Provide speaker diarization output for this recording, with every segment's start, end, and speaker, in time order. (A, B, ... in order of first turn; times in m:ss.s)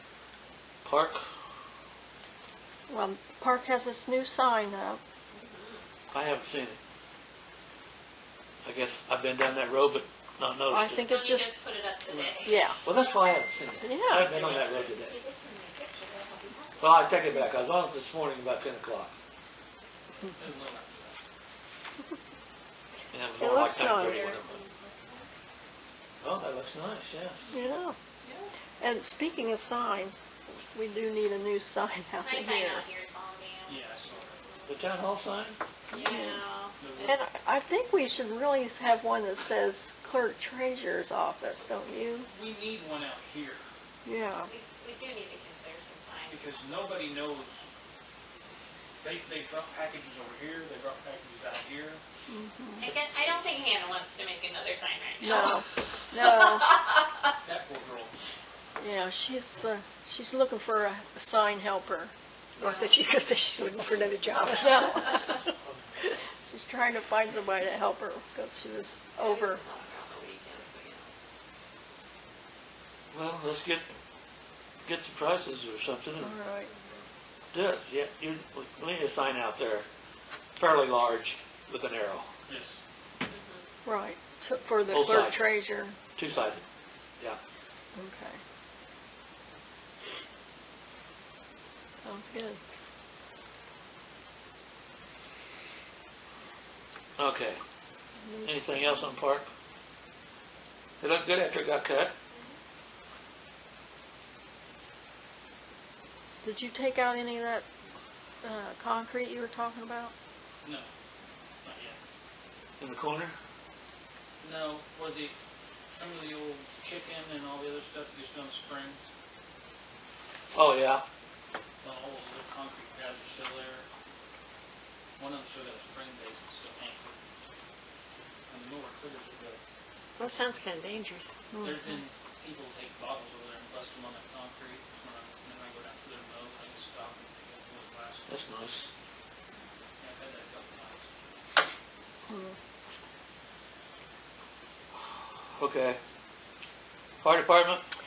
0:00.8-0:01.2 A
0:02.9-0:05.0 B
0:05.3-0:05.9 C
0:06.1-0:06.8 A
0:08.6-0:11.1 A
0:10.7-0:11.5 B
0:11.0-0:12.6 C
0:12.1-0:12.5 D
0:12.4-0:12.8 B
0:12.8-0:15.2 A
0:13.8-0:14.3 B
0:14.1-0:15.0 D
0:15.0-0:16.0 C
0:16.8-0:19.1 A
0:20.2-0:21.2 D
0:23.1-0:24.6 A
0:23.4-0:24.2 B
0:23.8-0:25.3 C
0:26.2-0:27.5 A
0:27.5-0:28.0 B
0:28.2-0:28.5 C
0:28.8-0:32.8 B
0:32.2-0:34.8 C
0:33.6-0:34.4 D
0:34.7-0:35.6 A
0:35.9-0:36.4 B
0:35.9-0:37.0 C
0:36.8-0:37.2 D
0:37.0-0:42.3 B
0:42.2-0:43.6 D
0:44.0-0:44.5 B
0:44.4-0:46.4 C
0:46.3-0:47.6 D
0:49.0-0:52.0 D
0:52.3-0:52.9 B
0:52.8-0:55.6 C
0:55.2-0:56.8 B
0:56.2-0:57.1 C
0:57.4-0:58.1 D
0:58.8-1:02.8 B
1:02.6-1:05.3 E
1:04.6-1:05.0 B
1:06.5-1:09.6 B
1:09.2-1:11.1 C
1:13.1-1:13.9 A
1:14.8-1:16.3 A
1:16.2-1:16.7 B
1:17.5-1:19.8 A
1:20.6-1:22.3 A
1:22.5-1:22.8 D
1:23.2-1:23.6 C
1:23.8-1:26.0 B
1:24.9-1:25.5 A
1:26.2-1:26.6 A
1:27.9-1:28.4 B
1:32.0-1:32.6 B
1:37.2-1:37.6 A
1:38.2-1:39.2 B
1:38.4-1:39.5 A
1:41.0-1:42.1 A
1:46.4-1:47.6 B
1:48.4-1:50.1 B
1:50.6-1:50.9 D
1:51.6-1:52.0 D
1:52.8-1:53.3 A
1:54.4-1:55.3 D
1:56.0-1:59.0 D
2:00.5-2:01.0 A
2:01.8-2:03.8 D
2:05.2-2:07.2 D
2:08.5-2:09.6 D
2:10.2-2:11.3 E
2:11.5-2:12.0 B
2:11.6-2:18.3 D
2:18.3-2:18.9 A
2:20.0-2:21.2 D
2:22.3-2:22.5 B
2:25.6-2:26.0 A
2:27.2-2:27.8 A